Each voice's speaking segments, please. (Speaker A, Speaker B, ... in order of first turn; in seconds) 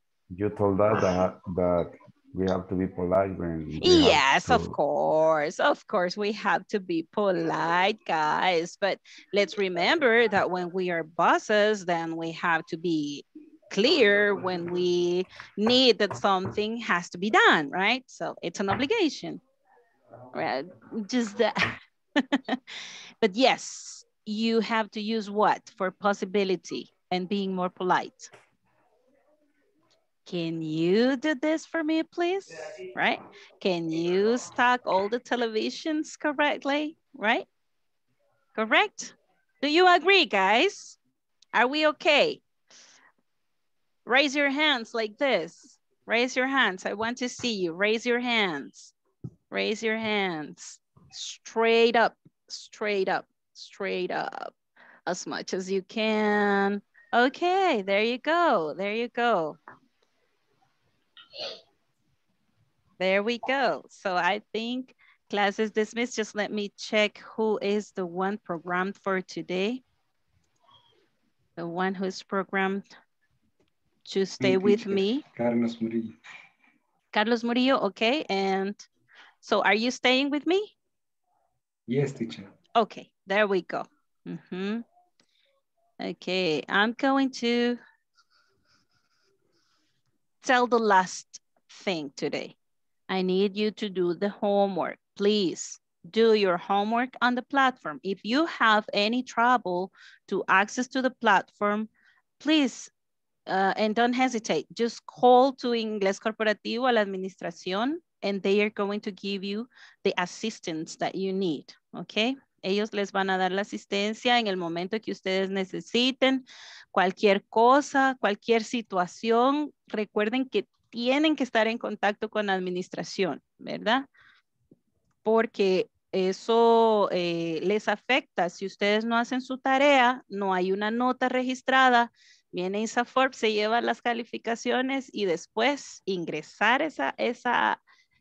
Speaker A: 0.3-4.8
Speaker B: 3.8-19.4, 20.3-22.6, 23.2-28.3, 30.2-37.5, 38.5-41.0, 41.5-42.4, 44.0-48.9, 49.5-54.5, 55.1-59.6, 63.0-69.8, 71.6-72.8, 74.1-75.2, 77.1-78.8, 79.4-80.7, 82.8-84.8, 86.0-87.8, 90.4-92.5, 93.1-101.9, 102.4-102.9, 103.5-124.1, 125.2-137.8
Speaker C: 74.4-76.2, 81.9-82.5